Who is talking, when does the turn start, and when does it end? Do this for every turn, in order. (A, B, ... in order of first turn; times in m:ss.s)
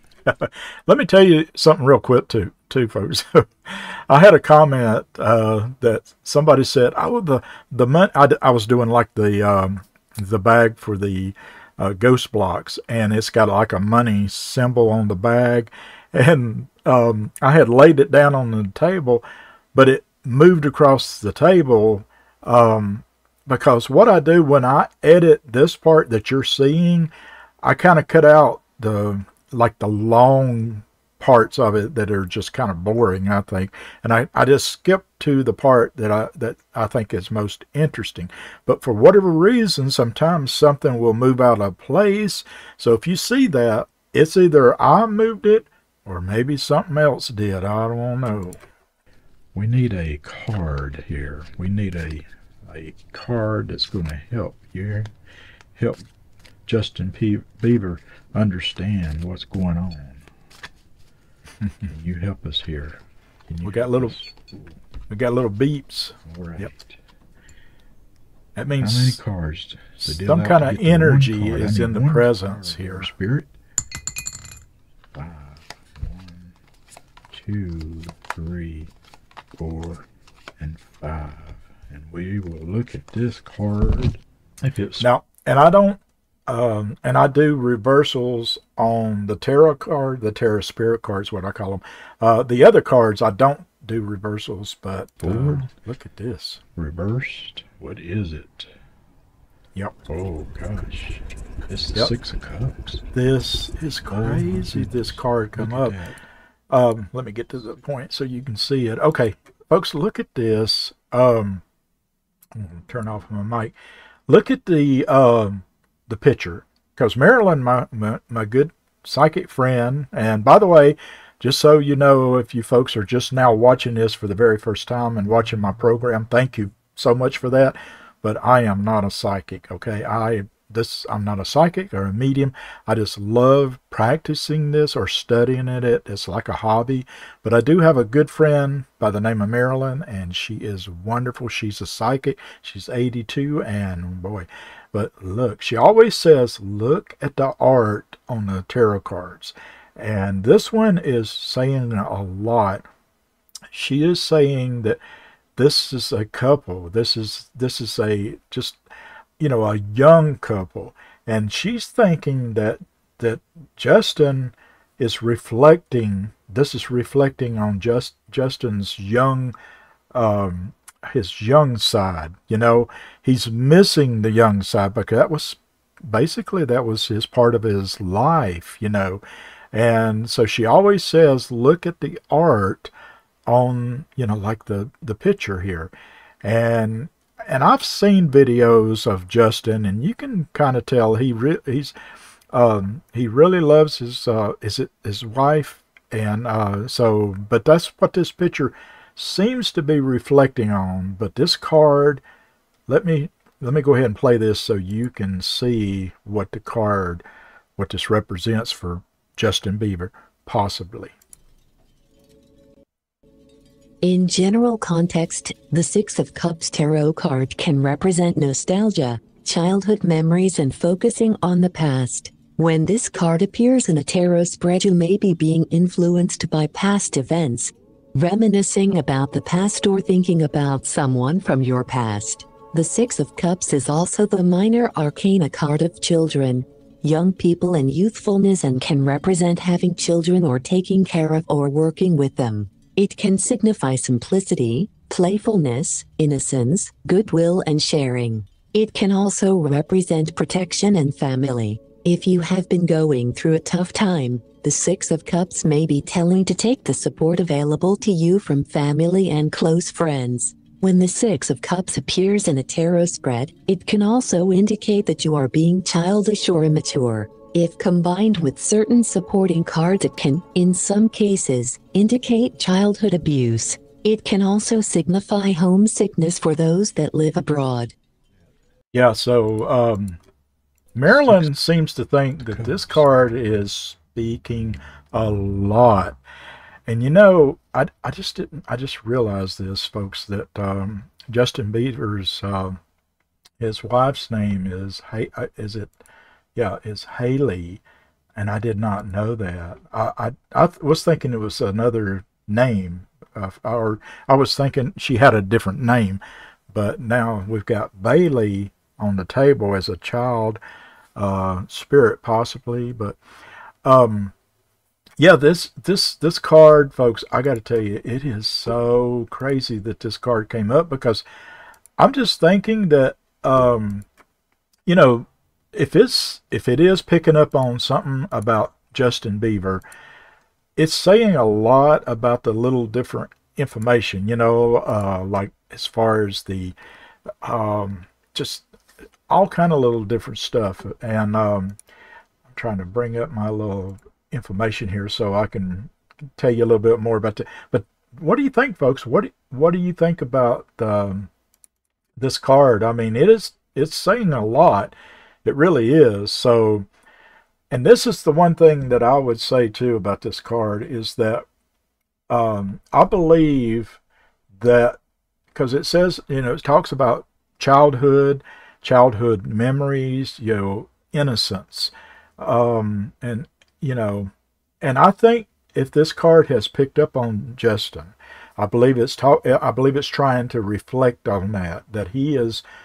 0:00.3-0:19.2 A
0:19.7-0:27.1 A
0:27.6-0:48.6 A
0:49.5-0:55.1 B
0:55.8-0:56.0 B
0:56.7-1:00.2 B
1:01.8-1:04.7 B
1:03.6-1:04.2 A
1:05.1-1:06.7 A
1:06.3-1:07.0 B
1:08.6-1:09.2 A
1:08.8-1:13.5 B
1:10.0-1:13.1 A
1:15.1-1:16.5 B
1:17.3-1:18.9 B
1:19.6-1:20.1 B
1:20.6-1:25.1 B
1:25.0-1:36.6 A
1:35.2-1:35.7 B
1:36.8-1:38.7 B
1:40.1-1:43.0 B
1:43.1-1:46.0 A
1:44.1-1:46.2 B
1:46.7-1:51.6 A
1:52.6-1:53.7 A
1:54.3-2:32.9 A
2:33.7-2:35.0 A
2:35.6-2:38.8 A
2:39.4-2:49.6 A
2:50.1-2:59.2 A
2:59.7-3:02.9 A
3:03.5-3:05.9 A
3:06.4-3:11.9 A
3:12.5-3:22.2 A
3:22.9-3:27.2 A
3:27.8-3:31.2 A
3:34.0-4:37.9 C
4:38.9-4:40.2 A
4:40.9-4:46.2 A
4:41.1-4:41.5 B
4:42.5-4:43.0 B
4:46.9-4:52.8 A
4:53.6-4:56.0 A
4:56.6-4:57.8 A
4:58.4-5:10.6 A
5:11.2-5:13.2 A
5:13.8-5:14.3 A
5:15.2-5:21.2 A
5:22.0-5:24.1 A
5:24.9-5:29.8 A
5:30.8-5:36.8 A
5:37.4-5:38.7 A
5:39.3-5:41.8 A
5:42.5-5:51.3 A
5:52.2-5:56.9 A
5:57.7-6:01.5 A
6:02.3-6:04.0 A
6:04.6-6:05.0 A
6:05.5-6:22.6 A